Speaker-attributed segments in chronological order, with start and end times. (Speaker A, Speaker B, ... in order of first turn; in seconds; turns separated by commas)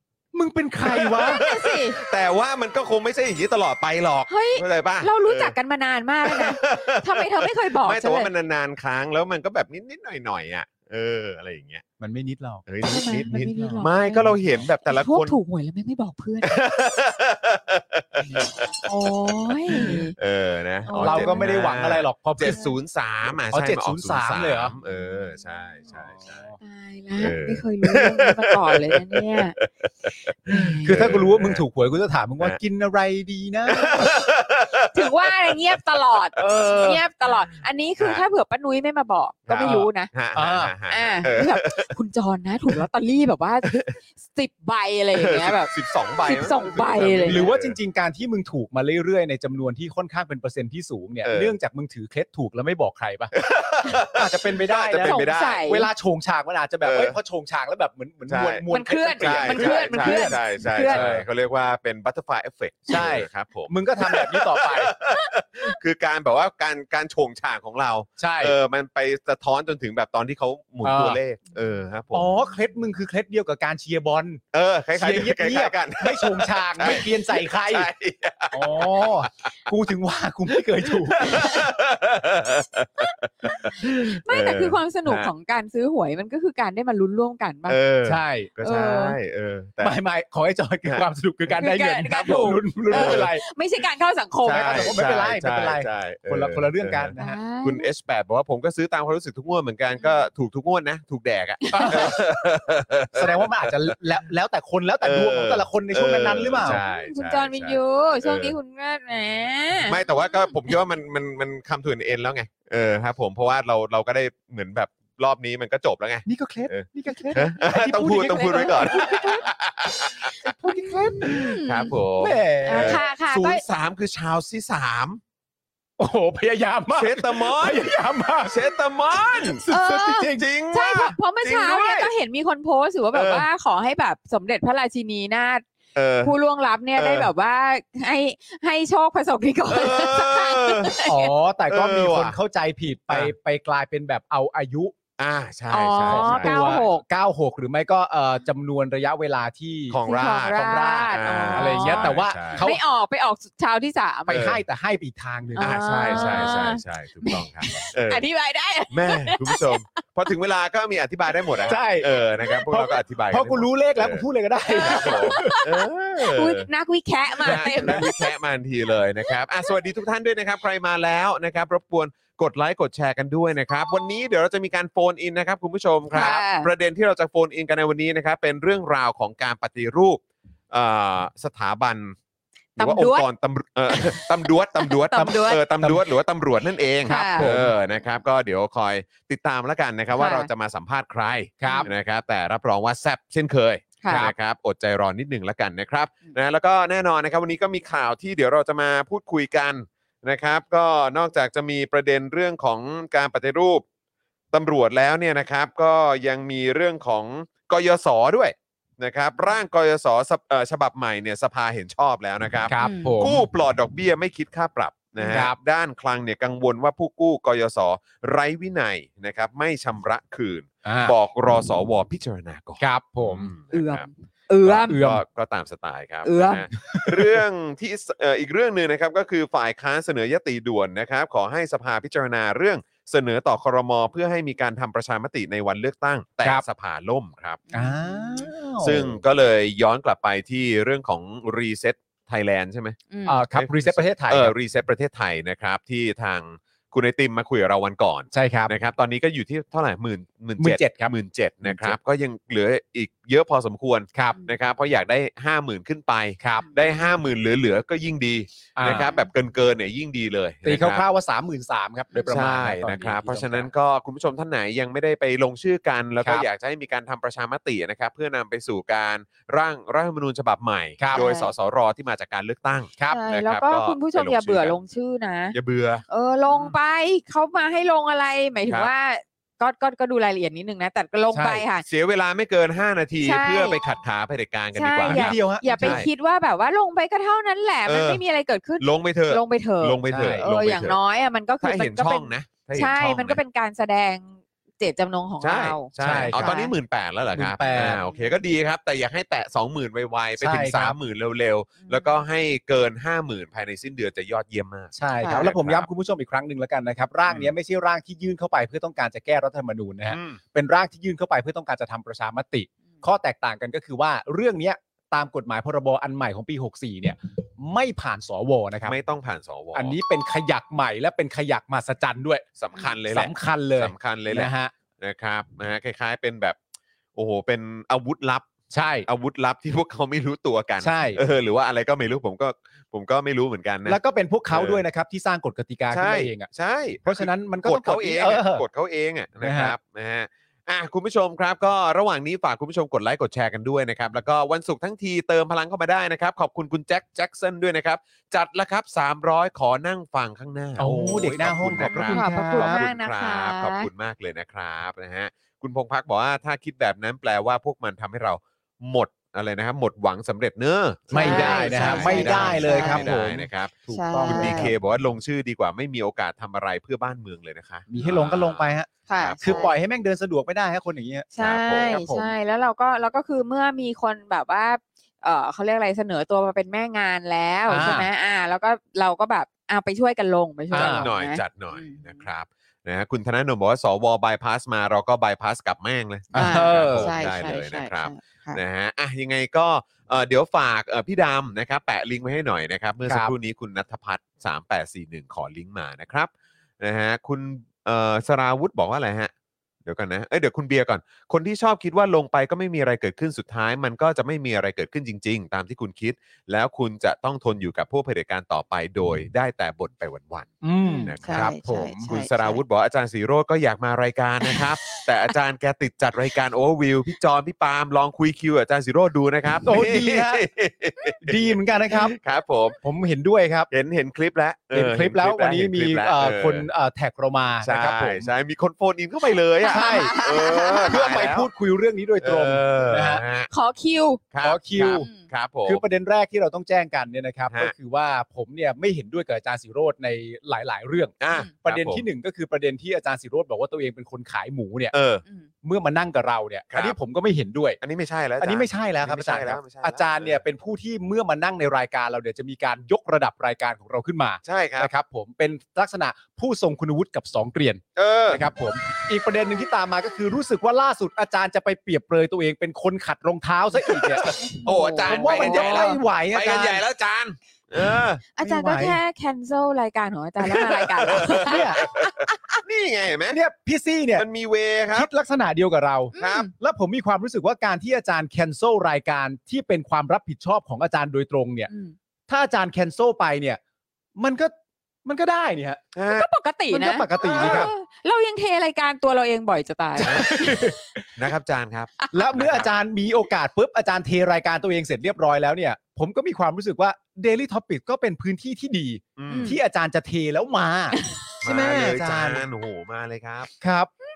Speaker A: 0.3-1.4, Speaker B: 0.8-5.5, Speaker C: 1.3-2.0, Speaker C: 4.3-8.3, Speaker B: 6.3-11.8, Speaker A: 12.0-12.7, Speaker B: 12.7-15.4, Speaker C: 12.8-16.5, Speaker A: 13.3-13.8, Speaker B: 16.4-18.7, Speaker C: 18.9-20.1, Speaker A: 19.7-20.0, Speaker B: 19.7-26.5, Speaker C: 20.9-21.8, Speaker A: 21.0-22.6, Speaker C: 22.4-22.8, Speaker A: 23.5-24.8, Speaker C: 24.8-25.9, Speaker A: 25.9-26.6, Speaker C: 26.6-29.6, Speaker B: 27.2-31.6, Speaker C: 30.5-31.1, Speaker A: 30.8-34.1, Speaker B: 33.7-35.3, Speaker C: 34.9-40.1, Speaker B: 36.4-37.4, Speaker B: 38.0-38.2, Speaker B: 39.5-41.9, Speaker A: 39.6-40.7, Speaker C: 40.9-47.5, Speaker B: 43.6-43.9, Speaker B: 45.1-47.8, Speaker A: 47.2-53.3, Speaker B: 51.2-51.5, Speaker B: 53.3-55.6, Speaker A: 54.1-61.3, Speaker C: 55.0-55.9, Speaker B: 56.8-57.2, Speaker B: 58.3-58.7, Speaker C: 58.7-61.1, Speaker B: 59.2-72.3, Speaker A: 62.9-64.9, Speaker A: 68.2-68.5, Speaker A: 70.8-71.2, Speaker A: 72.1-74.4, Speaker B: 74.5-79.5, Speaker A: 75.0-77.9, Speaker A: 78.5-81.5, Speaker B: 80.9-85.3, Speaker C: 81.2-81.6, Speaker C: 84.2-87.8, Speaker B: 87.7-90.0, Speaker A: 88.0-88.9, Speaker C: 88.6-89.2, Speaker A: 89.8-93.4, Speaker C: 91.6-95.0, Speaker B: 92.9-93.3, Speaker B: 94.4-103.7, Speaker A: 94.5-97.4, Speaker C: 97.2-97.9, Speaker C: 100.0-100.3, Speaker C: 101.7-102.2, Speaker A: 101.7-102.2, Speaker A: 103.1-106.8, Speaker B: 105.0-108.6, Speaker C: 106.6-110.5, Speaker B: 109.8-120.5, Speaker A: 116.2-119.5, Speaker C: 117.7-119.5, Speaker A: 120.4-121.5, Speaker C: 120.4-122.0, Speaker B: 121.3-125.2, Speaker A: 122.2-123.0, Speaker C: 122.7-123.6, Speaker A: 126.0-128.7, Speaker B: 126.9-127.9, Speaker B: 128.5-129.6, Speaker A: 129.3-130.5, Speaker C: 129.7-135.7, Speaker B: 130.3-132.1, Speaker B: 133.1-133.5, Speaker B: 135.9-136.4, Speaker C: 136.2-141.3, Speaker B: 137.0-137.3, Speaker B: 139.7-140.9, Speaker A: 141.0-144.9, Speaker B: 141.7-142.4, Speaker B: 145.2-146.8, Speaker C: 145.7-147.0, Speaker A: 146.1-152.8, Speaker B: 149.9-152.7, Speaker C: 150.1-154.4, Speaker A: 154.3-156.6, Speaker B: 154.3-154.6, Speaker C: 155.6-160.0, Speaker B: 155.6-158.2, Speaker B: 158.9-164.2, Speaker A: 161.7-162.1, Speaker A: 162.6-165.6, Speaker C: 164.7-165.8, Speaker B: 164.8-166.7, Speaker C: 166.3-168.3, Speaker B: 167.4-182.2, Speaker A: 167.4-168.1, Speaker C: 176.1-176.7, Speaker C: 182.8-183.3, Speaker B: 182.8-203.8, Speaker C: 184.8-185.6, Speaker A: 185.2-186.0, Speaker C: 187.1-187.5, Speaker A: 187.3-187.8, Speaker C: 190.2-190.5, Speaker A: 191.6-191.9, Speaker C: 191.6-191.9, Speaker C: 194.0-194.3, Speaker A: 194.1-194.3, Speaker B: 204.5-224.1, Speaker A: 212.7-213.4, Speaker C: 212.8-213.3, Speaker C: 215.2-215.4, Speaker A: 215.3-215.6, Speaker A: 220.8-221.2, Speaker A: 222.8-223.5, Speaker C: 223.7-225.0, Speaker B: 224.6-237.6, Speaker A: 224.9-225.2, Speaker C: 226.2-226.7, Speaker A: 226.9-227.4, Speaker C: 237.7-238.5, Speaker A: 237.7-239.2, Speaker B: 238.8-243.0, Speaker C: 243.1-243.4, Speaker A: 243.3-244.5, Speaker B: 243.6-261.1, Speaker A: 248.3-248.7, Speaker A: 250.6-252.0, Speaker A: 256.4-256.7, Speaker C: 256.6-257.0, Speaker A: 258.8-259.1, Speaker C: 258.8-259.3, Speaker A: 260.6-263.7, Speaker C: 262.1-262.4, Speaker B: 262.3-274.8, Speaker A: 271.0-271.2, Speaker C: 271.1-271.5, Speaker C: 273.1-275.6, Speaker B: 275.5-276.8, Speaker C: 276.1-281.8, Speaker A: 281.3-281.7, Speaker B: 281.9-286.1, Speaker C: 283.2-283.8, Speaker C: 284.7-296.7, Speaker A: 285.1-286.1, Speaker B: 287.9-288.2, Speaker B: 288.8-291.0, Speaker A: 290.1-290.5, Speaker B: 291.6-293.4, Speaker B: 295.4-305.9, Speaker A: 296.0-296.6, Speaker A: 297.3-298.0, Speaker C: 297.6-298.4, Speaker A: 300.4-301.0, Speaker C: 301.8-302.2, Speaker A: 304.9-319.0, Speaker C: 305.2-305.4, Speaker B: 307.3-307.5, Speaker B: 310.1-310.4, Speaker B: 318.9-320.0, Speaker A: 319.7-322.4, Speaker B: 322.6-326.6, Speaker A: 323.1-324.7, Speaker B: 327.2-328.5, Speaker A: 328.7-329.1, Speaker B: 329.1-334.0, Speaker A: 330.8-331.2, Speaker A: 333.9-336.5, Speaker B: 334.5-334.8, Speaker B: 335.9-369.7, Speaker A: 337.1-338.6, Speaker A: 339.4-339.8, Speaker A: 350.8-352.8, Speaker C: 351.8-353.9, Speaker A: 361.1-364.8, Speaker C: 361.1-363.1, Speaker C: 363.9-364.7, Speaker A: 367.9-368.9, Speaker C: 369.1-369.7, Speaker A: 369.4-372.3, Speaker C: 371.3-382.3, Speaker B: 371.4-372.0, Speaker A: 377.7-378.1, Speaker A: 380.7-381.1, Speaker B: 380.7-399.3, Speaker C: 386.3-388.6, Speaker A: 386.3-387.1, Speaker A: 393.1-393.3, Speaker B: 399.9-422.8, Speaker A: 410.6-412.1, Speaker C: 410.8-412.6, Speaker A: 419.6-420.4, Speaker A: 421.2-422.1, Speaker A: 422.8-423.7, Speaker B: 423.7-426.7, Speaker A: 424.7-428.3, Speaker B: 427.6-431.5, Speaker C: 429.6-431.2, Speaker A: 429.7-433.2, Speaker B: 432.2-433.5, Speaker C: 433.5-434.2, Speaker B: 434.3-435.8, Speaker A: 434.4-435.1, Speaker C: 434.8-435.2, Speaker A: 435.6-444.9, Speaker B: 441.2-442.1, Speaker B: 444.9-445.2, Speaker A: 445.6-447.8, Speaker B: 446.7-447.0, Speaker B: 447.8-450.4, Speaker A: 448.4-466.8, Speaker B: 454.5-454.9, Speaker B: 458.0-458.4, Speaker B: 464.1-468.2, Speaker C: 464.6-466.0, Speaker C: 468.4-472.3, Speaker A: 468.4-469.0, Speaker B: 470.8-473.4, Speaker A: 471.1-471.8, Speaker A: 473.3-474.3, Speaker B: 474.2-475.1, Speaker A: 474.9-481.7, Speaker C: 476.1-476.5, Speaker B: 476.2-476.5, Speaker C: 481.7-481.9, Speaker A: 482.3-483.6, Speaker A: 484.2-484.5, Speaker A: 485.1-485.8, Speaker B: 485.9-486.3, Speaker C: 486.1-490.5, Speaker A: 486.7-487.7, Speaker B: 487.2-487.7, Speaker A: 490.0-490.8, Speaker B: 490.0-490.5, Speaker B: 491.2-492.7, Speaker C: 492.0-492.4, Speaker A: 492.1-502.4, Speaker B: 499.2-499.5, Speaker C: 499.3-499.6, Speaker B: 501.4-503.5, Speaker A: 503.6-503.9